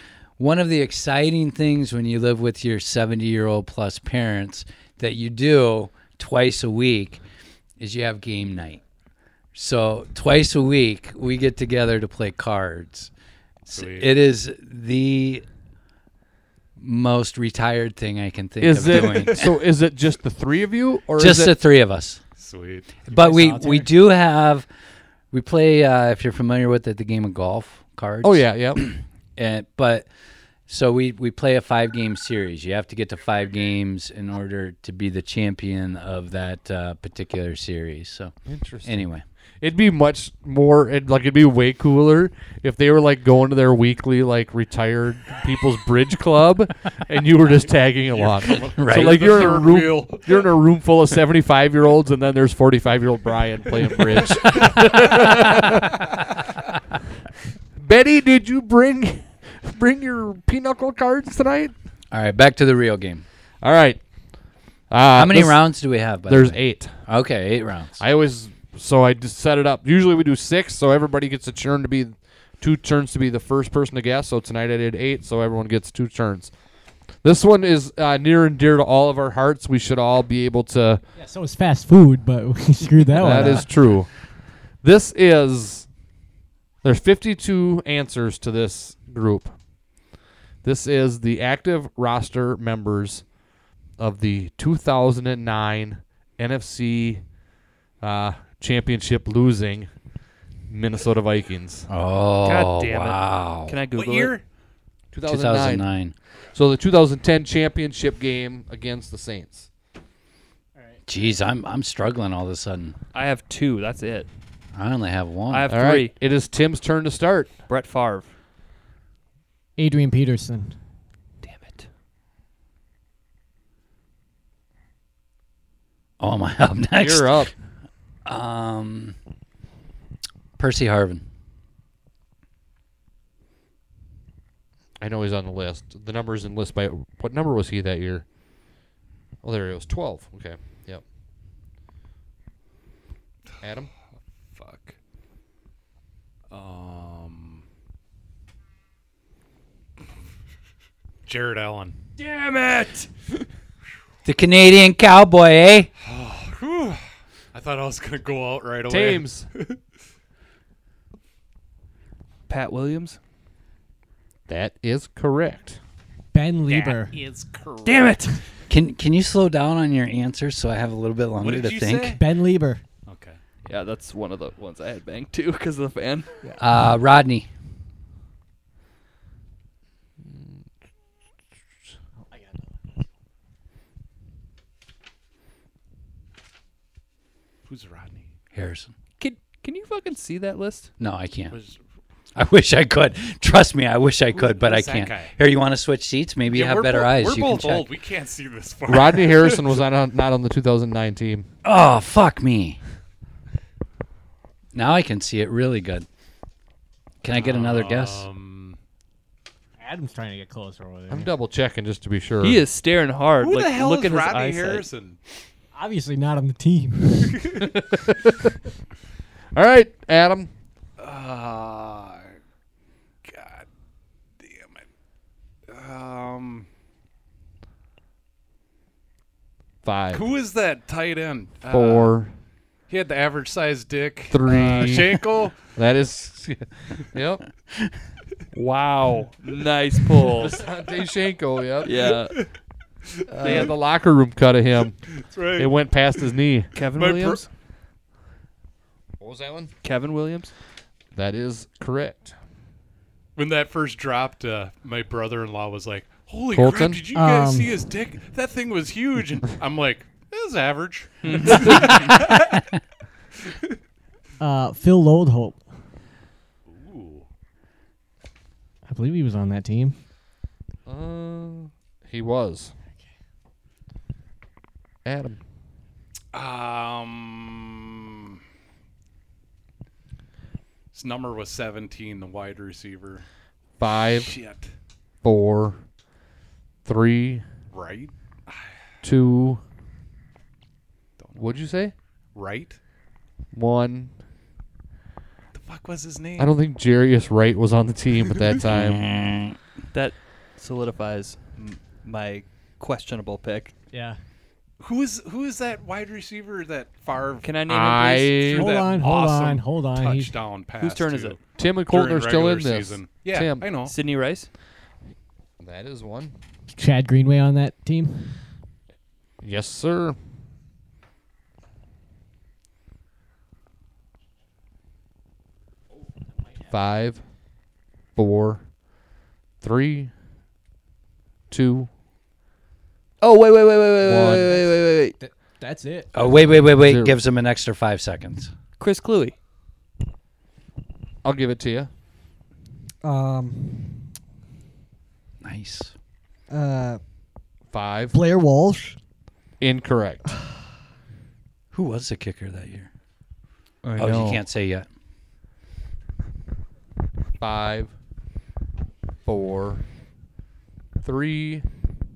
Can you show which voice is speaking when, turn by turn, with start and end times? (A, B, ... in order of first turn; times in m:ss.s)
0:00.4-0:07.2 A
0:07.8-0:08.8 A
0:09.5-0:13.1 A
0:13.6-0:15.4 A
0:13.7-0:14.2 B
0:16.8-0:19.6 A
0:18.6-0:21.6 C
0:21.2-0:22.2 A
0:22.4-0:23.0 B
0:23.1-0:23.9 D
0:23.1-0:24.7 A
0:25.3-0:30.1 A
0:28.2-0:28.8 C
0:30.7-0:38.3 A
0:38.5-0:39.0 C
0:38.8-0:39.2 A
0:39.6-0:56.2 C
0:48.1-0:50.6 B
0:48.7-0:49.6 A
0:53.9-0:55.2 B
0:57.8-1:01.7 C
1:02.1-1:03.2 A
1:03.6-1:04.0 C
1:04.9-1:06.9 C
1:05.1-1:08.0 A
1:08.0-1:16.5 C
1:17.2-1:21.0 C
1:21.2-1:23.7 D
1:23.2-1:24.1 C
1:24.8-1:25.9 C
1:26.8-1:29.5 C
1:30.6-1:33.3 C
1:34.0-1:37.2 C
1:38.0-1:39.9 C
1:40.7-1:41.9 C
1:41.9-1:43.8 A
1:42.4-1:44.4 E
1:43.9-1:44.4 B
1:45.1-1:45.8 C
1:45.3-1:46.1 A
1:46.6-1:49.7 C
1:50.8-1:51.0 D
1:51.1-1:53.0 A
1:53.1-1:54.3 E
1:54.7-1:55.7 A
1:55.5-1:56.1 E
1:55.7-1:57.5 C
1:57.7-1:58.3 E
1:59.8-2:00.8 D
2:01.4-2:01.9 E
2:06.2-2:07.5 A
2:07.0-2:07.5 C
2:08.2-2:09.2 A
2:10.6-2:11.2 A
2:15.0-2:18.2 C
2:19.4-2:21.0 C
2:23.6-2:23.9 C
2:24.5-2:24.9 B
2:26.5-2:27.6 B
2:31.3-2:32.0 B
2:32.2-2:33.1 E
2:34.2-2:35.9 A
2:36.0-2:37.0 B
2:37.5-2:39.8 B
2:38.9-2:39.5 C
2:42.5-2:43.2 E
2:44.5-2:45.8 C
2:46.3-2:47.2 D
2:46.7-2:48.2 B
2:47.8-2:48.4 E
2:48.7-2:52.2 A
2:51.4-2:52.2 B
2:52.1-2:52.8 D
2:53.1-2:53.4 B
2:53.7-2:56.3 E
2:56.6-2:57.5 A
3:02.3-3:02.7 D
3:07.7-3:08.2 B
3:08.5-3:08.9 A
3:09.2-3:10.9 E
3:11.0-3:11.6 A
3:11.5-3:11.8 B
3:12.4-3:17.9 A
3:14.3-3:15.3 B
3:16.5-3:19.8 B
3:18.9-3:21.5 C
3:21.6-3:22.8 A
3:24.7-3:26.1 A
3:27.2-3:28.2 A
3:27.3-3:28.8 B
3:29.8-3:31.3 D
3:31.1-3:32.6 C
3:32.4-3:34.8 E
3:33.4-3:35.2 B
3:35.8-3:37.6 D
3:37.6-3:38.5 C
3:39.6-3:40.5 C
3:41.0-3:42.4 B
3:43.2-3:43.7 B
3:44.4-3:44.8 B
3:45.7-3:46.7 B
3:49.8-3:50.2 C
3:50.1-3:52.2 B
3:51.7-3:52.3 C
3:52.9-3:55.6 B
3:54.3-3:57.4 C
3:58.6-3:58.8 C
3:58.7-4:00.6 E
4:00.3-4:01.9 C
4:01.8-4:02.4 E
4:03.2-4:03.7 B
4:03.3-4:03.8 E
4:03.4-4:05.0 C
4:05.1-4:06.3 B
4:05.6-4:06.7 C
4:06.8-4:07.5 E
4:07.0-4:07.4 B
4:09.2-4:09.7 C
4:09.8-4:10.5 E
4:11.2-4:12.3 C
4:13.4-4:22.6 B
4:16.5-4:17.0 C
4:17.1-4:17.8 D
4:21.2-4:21.9 E
4:24.4-4:25.6 D
4:26.7-4:27.3 B
4:28.9-4:30.0 D
4:30.9-4:32.7 C
4:35.0-4:35.4 C
4:36.3-4:38.4 B
4:40.9-4:43.2 B
4:43.8-4:44.4 C
4:44.1-4:44.7 B
4:45.2-4:45.8 C
4:46.8-4:47.4 C
4:47.7-4:48.7 B
4:49.0-4:49.6 C
4:51.2-4:51.5 B
4:51.4-4:51.9 C
4:52.4-4:52.8 B
4:53.5-4:54.1 C
4:55.5-4:56.6 B
4:56.4-4:59.0 C
4:58.7-4:59.6 A
4:59.9-5:03.7 E
5:03.9-5:04.2 D
5:04.8-5:07.5 B
5:07.4-5:08.7 E
5:07.7-5:08.7 C
5:08.5-5:13.9 B
5:08.6-5:10.4 D
5:10.8-5:11.4 E
5:11.6-5:13.7 C
5:13.8-5:14.5 E
5:15.6-5:16.4 C
5:16.8-5:18.4 D
5:19.4-5:20.2 C
5:26.7-5:27.2 C
5:28.2-5:28.6 C
5:29.6-5:30.1 C
5:31.5-5:31.9 C
5:33.2-5:35.2 E
5:34.0-5:34.6 C
5:35.2-5:36.3 D
5:36.1-5:38.5 A
5:36.7-5:37.2 C
5:38.8-5:39.4 E
5:41.2-5:41.9 C
5:43.0-5:44.0 D
5:45.4-5:45.9 A
5:46.5-5:47.0 D
5:47.7-5:48.2 C
5:48.1-5:49.0 D
5:49.6-5:50.2 C
5:51.7-5:52.9 A
5:53.8-5:54.4 E
5:54.0-5:54.9 A
5:57.4-5:57.9 C
5:59.2-5:59.8 C
6:01.0-6:01.7 C